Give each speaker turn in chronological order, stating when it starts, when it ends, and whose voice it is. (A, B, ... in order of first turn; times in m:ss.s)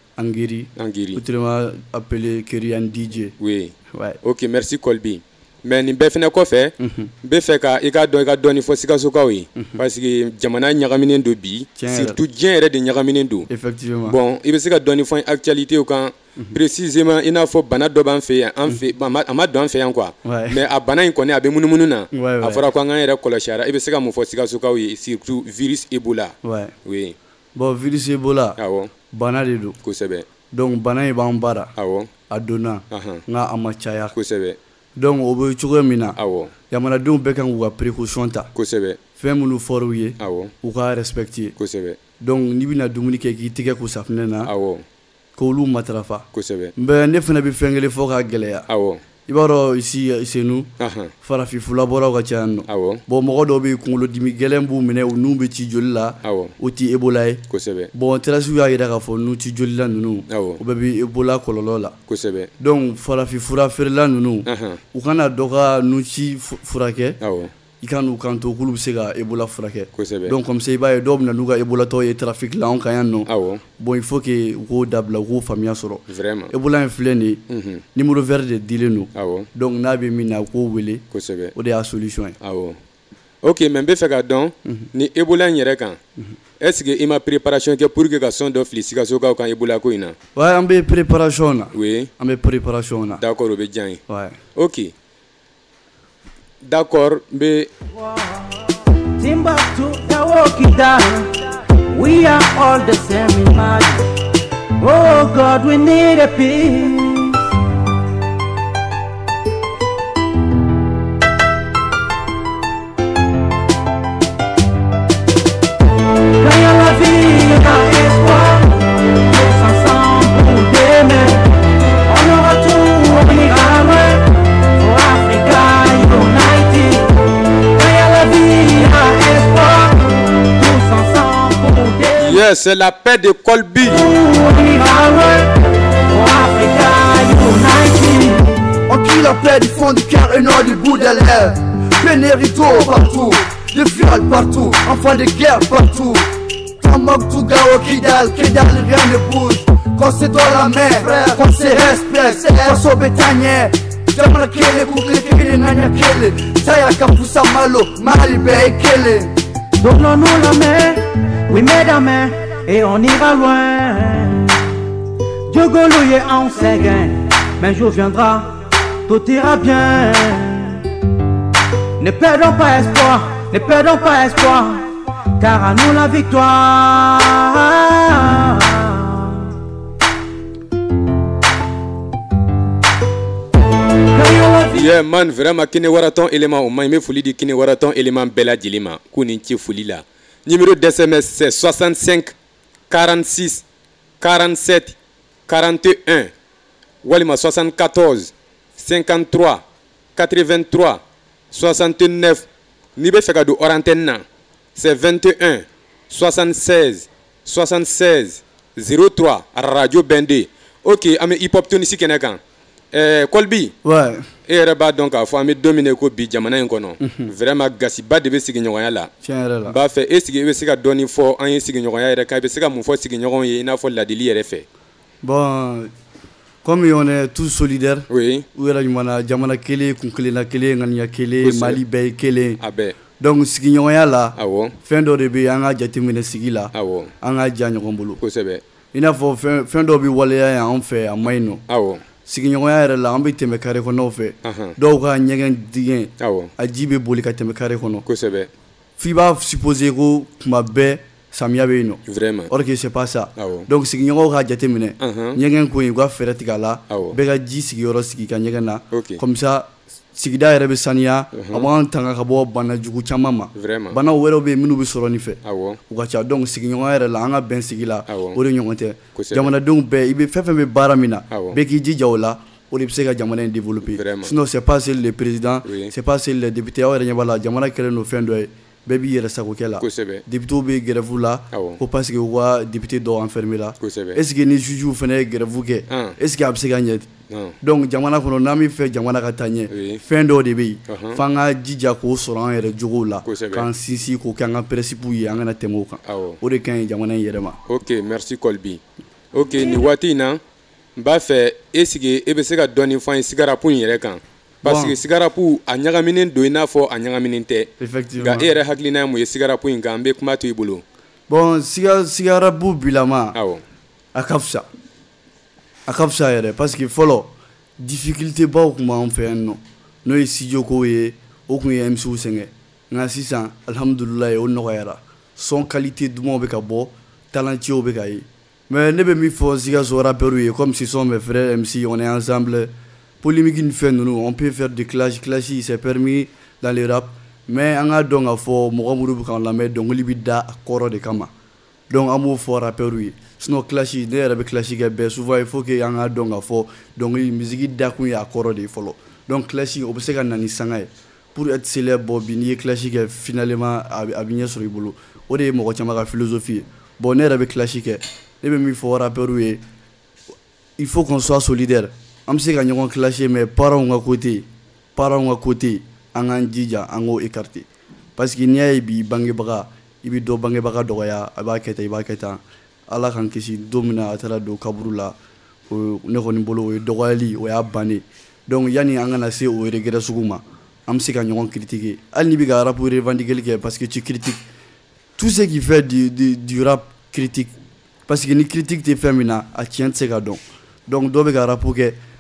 0:00.2-0:03.3 A
0:00.8-0:01.2 B
0:03.4-0:13.5 B
0:06.8-0:07.1 A
0:11.8-0:12.2 A
0:13.5-0:14.2 A
0:14.0-0:27.2 B
0:20.2-0:20.6 A
0:22.1-0:22.6 A
0:26.4-0:26.7 A
0:27.5-0:28.6 A
0:28.6-0:28.9 B
0:29.1-0:29.8 A
0:29.8-0:30.2 B
0:30.5-0:31.7 A
0:31.8-0:32.1 B
0:32.3-0:34.1 A
0:32.9-0:33.2 B
0:34.1-0:34.6 B
0:35.0-0:36.2 A
0:36.2-0:36.5 B
0:36.7-0:38.5 A
0:38.5-0:39.0 B
0:39.2-0:41.5 A
0:40.2-0:40.5 B
0:41.6-0:42.0 B
0:42.2-0:44.5 A
0:44.4-0:44.8 B
0:45.4-0:46.2 A
0:46.3-0:46.7 B
0:46.8-0:48.6 A
0:48.7-0:49.0 B
0:49.3-0:50.7 A
0:50.8-0:51.1 B
0:51.2-0:57.4 A
0:52.7-0:53.0 B
0:56.2-0:56.5 B
0:57.5-0:57.9 B
0:57.9-1:01.9 A
1:00.3-1:00.6 B
1:02.1-1:02.5 B
1:02.6-1:07.2 A
1:04.4-1:04.8 B
1:07.2-1:07.5 B
1:07.8-1:13.3 A
1:09.9-1:10.4 B
1:13.2-1:13.6 B
1:13.8-1:17.4 A
1:16.1-1:16.5 B
1:17.5-1:17.8 B
1:17.9-1:21.0 A
1:19.1-1:19.5 B
1:21.1-1:21.5 B
1:21.6-1:22.3 A
1:22.4-1:22.8 B
1:23.4-1:26.0 B
1:26.6-1:30.2 B
1:30.4-1:33.2 A
1:31.7-1:32.1 B
1:33.2-1:34.0 B
1:34.1-1:34.3 A
1:34.5-1:34.9 B
1:36.6-1:37.7 B
1:38.0-1:38.6 C
1:39.2-1:41.4 C
1:41.9-1:44.0 C
1:44.8-1:47.4 C
1:56.4-2:01.4 C
2:02.1-2:07.1 C
2:07.7-2:12.4 C
2:12.2-2:14.0 B
2:13.9-2:15.5 C
2:16.1-2:18.5 C
2:18.9-2:26.3 D
2:26.8-2:39.3 D
2:39.8-2:44.6 C
2:45.5-2:48.5 C
2:49.1-2:50.8 C
2:52.0-2:59.5 C
3:04.1-3:04.8 C
3:04.7-3:12.3 B
3:12.9-3:13.6 B
3:14.2-3:15.0 B
3:15.5-3:16.3 B
3:17.0-3:19.6 B
3:20.2-3:24.2 B
3:24.7-3:32.4 B
3:32.9-3:33.7 B
3:33.8-3:34.2 A
3:34.5-3:39.1 B
3:39.2-3:39.7 A
3:39.6-3:44.6 B
3:45.2-3:45.9 A
3:46.6-3:48.0 A
3:48.1-3:48.4 B
3:48.5-3:52.6 A
3:51.4-3:51.8 B
3:52.6-3:53.0 B
3:53.2-3:56.7 A
3:54.3-3:54.7 B
3:56.7-3:57.1 B
3:57.2-3:58.2 A
3:58.2-3:58.6 B
3:58.9-4:01.6 A
4:01.7-4:02.0 B
4:02.3-4:08.0 A
4:04.4-4:04.8 B
4:06.2-4:06.5 B
4:08.0-4:08.5 B
4:09.0-4:12.0 A
4:12.0-4:12.5 B
4:12.5-4:25.4 A
4:13.4-4:13.7 B
4:15.0-4:15.4 B
4:16.9-4:17.2 B
4:18.9-4:19.2 B
4:21.3-4:21.7 B
4:23.5-4:24.0 B
4:25.4-4:25.8 B
4:25.9-4:47.1 A
4:28.1-4:28.4 B
4:29.2-4:29.5 B
4:31.3-4:31.6 B
4:33.8-4:34.4 B
4:35.6-4:35.9 B
4:39.8-4:40.2 B
4:41.5-4:41.8 B
4:43.8-4:44.2 B
4:45.9-4:46.2 B
4:47.3-4:47.6 B
4:47.6-4:57.5 A
4:49.7-4:50.0 B
4:50.9-4:51.2 B
4:53.2-4:53.7 B
4:56.0-4:56.4 B
4:57.7-4:58.8 B
4:59.3-5:00.4 B
5:01.0-5:10.8 B
5:04.6-5:04.9 A
5:07.8-5:08.5 A
5:11.3-5:13.3 A
5:13.3-5:13.6 B
5:14.1-5:14.6 A
5:15.9-5:32.7 A
5:33.2-5:41.3 A
5:41.9-5:59.6 A
6:00.8-6:04.4 A
6:05.0-6:07.6 A
6:08.2-6:15.1 A
6:15.7-6:24.4 A
6:25.2-6:27.5 A
6:28.1-6:32.0 A